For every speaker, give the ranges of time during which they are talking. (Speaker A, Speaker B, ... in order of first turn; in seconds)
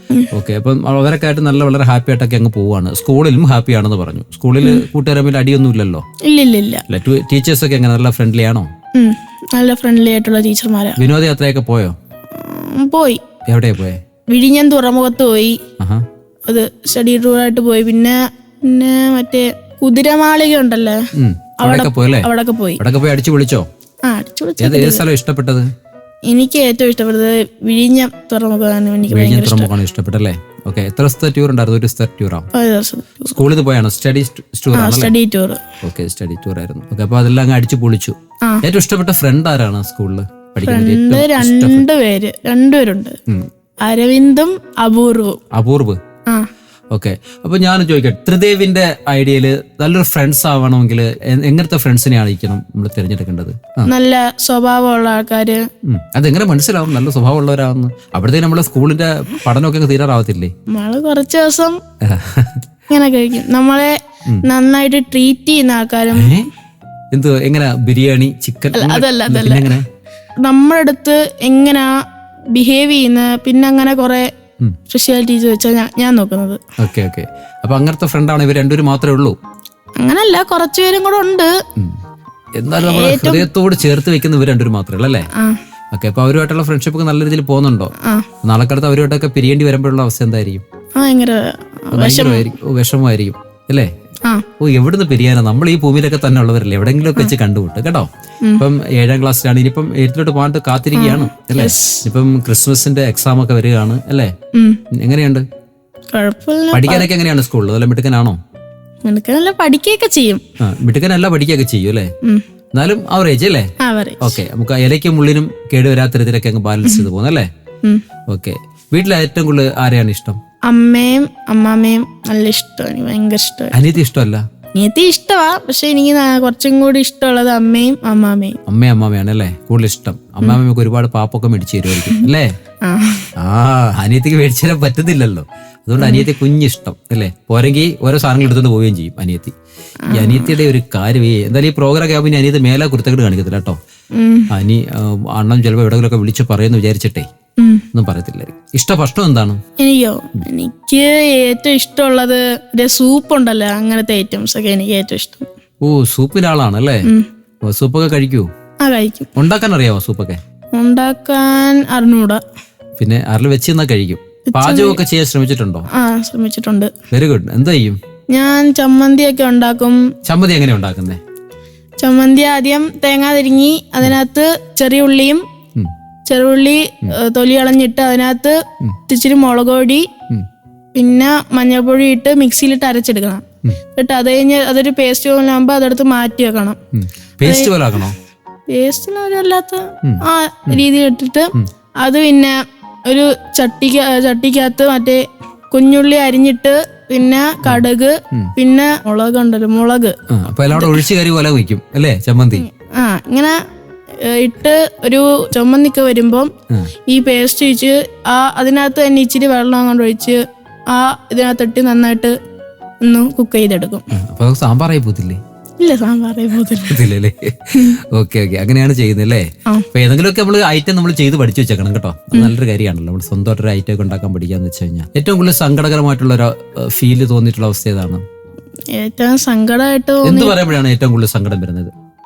Speaker A: 0.3-6.0, 6.9-8.7, 11.0-12.0, 13.5-14.0, 15.8-16.0, 21.2-22.3, 22.8-23.7, 24.6-25.7, 29.1-32.5, 33.3-35.1, 35.8-41.9, 45.5-46.0, 46.9-53.9, 55.9-60.5, 62.0-62.6, 66.1-66.5, 67.1-69.9, 76.8-79.4, 82.6-85.3, 85.9-90.6, 92.0-93.9, 94.6-104.3, 104.9-105.5, 106.7-108.4, 110.6-112.1, 112.7-113.7, 114.2-117.5, 118.3-120.4, 123.7-124.4, 128.7-132.6, 133.4-139.5, 140.1-143.8, 144.5-147.3, 147.9-149.6, 155.8-157.1, 157.7-158.5, 159.4-160.4, 163.0-165.9, 167.1-168.0, 170.2-171.2, 186.9-188.2, 190.0-190.8, 197.6-198.5, 200.3-202.7, 214.1-215.4, 216.9-228.2, 230.2-231.9
Speaker B: 6.3-6.8, 9.0-11.0, 12.4-13.2, 14.3-15.6, 16.5-21.0, 21.6-22.8, 24.1-25.0, 26.3-29.7, 32.5-33.4, 34.7-35.6, 40.6-43.2, 43.9-45.4, 53.9-55.6, 60.7-61.8, 62.9-66.3, 68.7-69.7, 70.5-71.9, 72.6-74.3, 74.9-76.6, 80.0-81.5, 82.8-83.5, 91.0-92.4, 101.0-102.0, 104.5-104.8, 106.1-107.1, 109.1-110.4, 113.8-114.4, 120.7-123.8, 124.8-128.6, 131.9-132.3, 132.8-133.3, 136.0-136.3, 140.1-140.6, 144.2-144.5, 147.6-147.8, 149.8-155.5, 158.8-159.3, 160.8-162.4, 164.5-165.0, 165.9-166.9, 168.3-170.0, 172.0-175.4, 176.3-180.1, 180.9-186.8, 187.4-187.7, 188.7-192.5, 193.1-195.2, 195.7-200.2, 200.8-201.0, 202.6-203.6, 204.2-206.5, 207.1-210.4, 210.9-212.3, 213.1-214.1, 215.8-217.1, 228.9-230.6